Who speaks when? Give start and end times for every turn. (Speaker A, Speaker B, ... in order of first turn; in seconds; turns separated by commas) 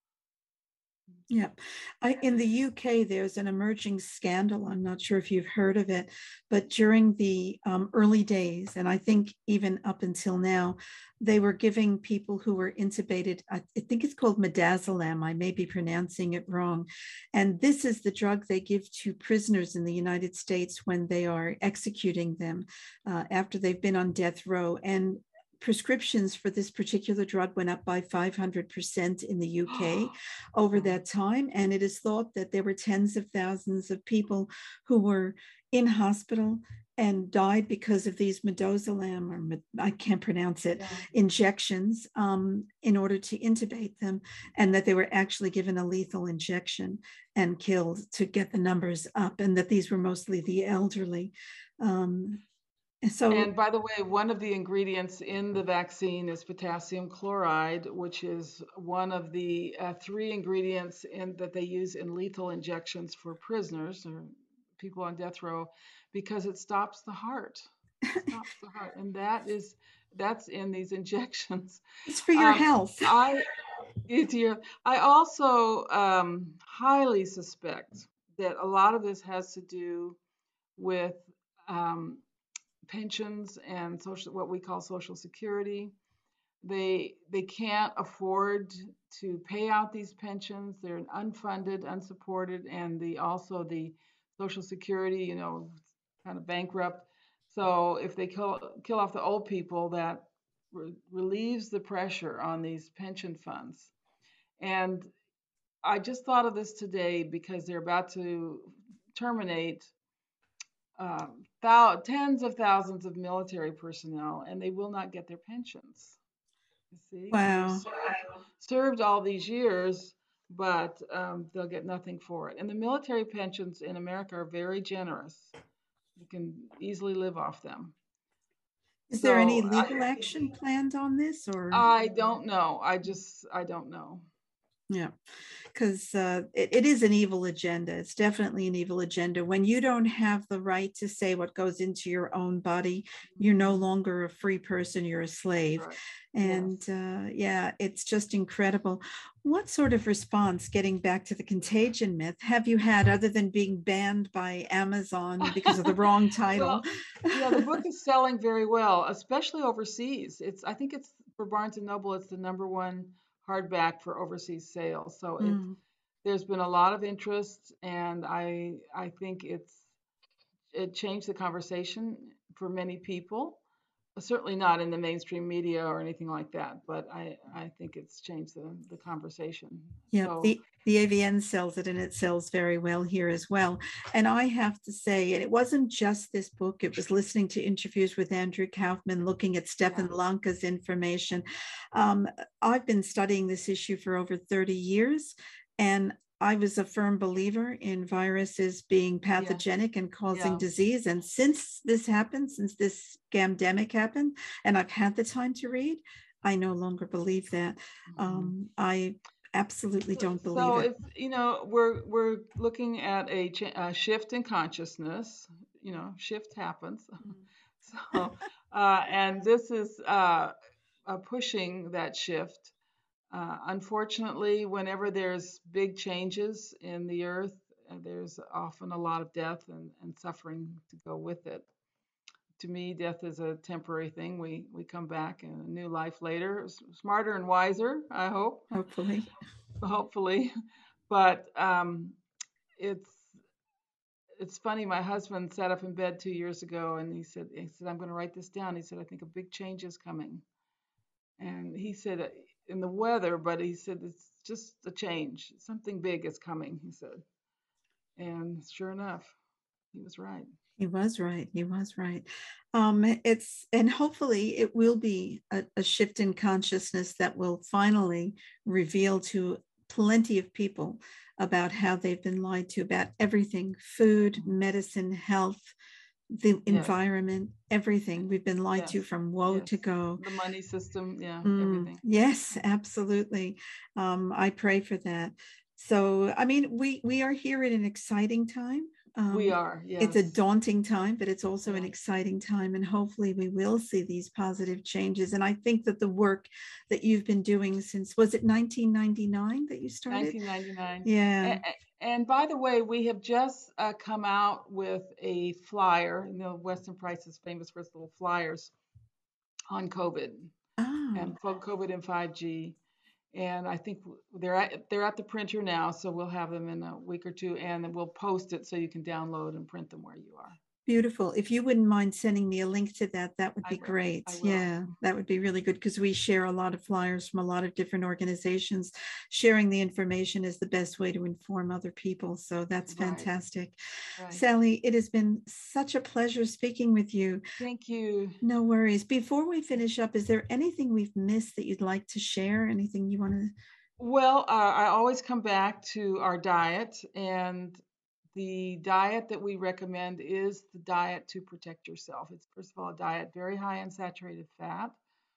Speaker A: 1.3-52.4, Speaker B: 29.7-30.1, Speaker B: 30.7-31.0, Speaker B: 40.7-41.1, Speaker A: 53.0-53.5, Speaker B: 53.3-67.7, Speaker B: 68.3-73.5, Speaker A: 72.1-73.1, Speaker B: 74.0-80.2, Speaker B: 80.8-82.2, Speaker B: 82.8-85.9, Speaker B: 86.6-103.9, Speaker B: 104.6-105.1, Speaker B: 105.8-109.9, Speaker B: 111.0-116.2, Speaker B: 116.9-125.5, Speaker A: 117.3-117.8, Speaker B: 126.2-127.9, Speaker A: 129.1-131.8, Speaker B: 129.2-130.0, Speaker B: 131.7-134.3, Speaker A: 135.7-157.7, Speaker B: 143.3-143.8, Speaker B: 145.8-146.8, Speaker B: 155.5-155.9, Speaker B: 156.5-165.6, Speaker A: 165.4-165.8, Speaker B: 166.2-169.8, Speaker B: 170.7-173.6, Speaker B: 174.2-180.5, Speaker A: 180.1-210.9, Speaker B: 199.4-199.6, Speaker B: 200.3-200.7, Speaker B: 208.1-208.5, Speaker B: 210.1-217.3, Speaker B: 217.8-220.5, Speaker B: 221.1-222.7, Speaker B: 223.3-231.7, Speaker B: 232.6-238.7, Speaker A: 238.7-239.3, Speaker B: 239.8-240.5, Speaker B: 241.1-242.2, Speaker B: 242.8-243.4, Speaker B: 244.4-250.4, Speaker B: 251.4-257.2, Speaker B: 258.2-259.3, Speaker B: 259.9-260.5, Speaker A: 260.8-275.6, Speaker A: 276.3-280.2, Speaker B: 276.7-276.9, Speaker B: 278.8-282.0, Speaker A: 281.4-300.4, Speaker B: 289.3-290.4, Speaker B: 291.6-291.9, Speaker B: 300.1-308.7, Speaker A: 301.0-301.6, Speaker B: 309.7-310.5, Speaker A: 310.8-311.3, Speaker B: 311.1-312.8, Speaker B: 313.3-320.6, Speaker A: 320.9-333.8, Speaker B: 323.6-324.9, Speaker B: 332.9-333.3, Speaker B: 334.2-334.4, Speaker A: 334.3-337.4, Speaker B: 337.6-338.4, Speaker A: 338.4-343.5, Speaker B: 344.0-347.8, Speaker B: 348.3-355.0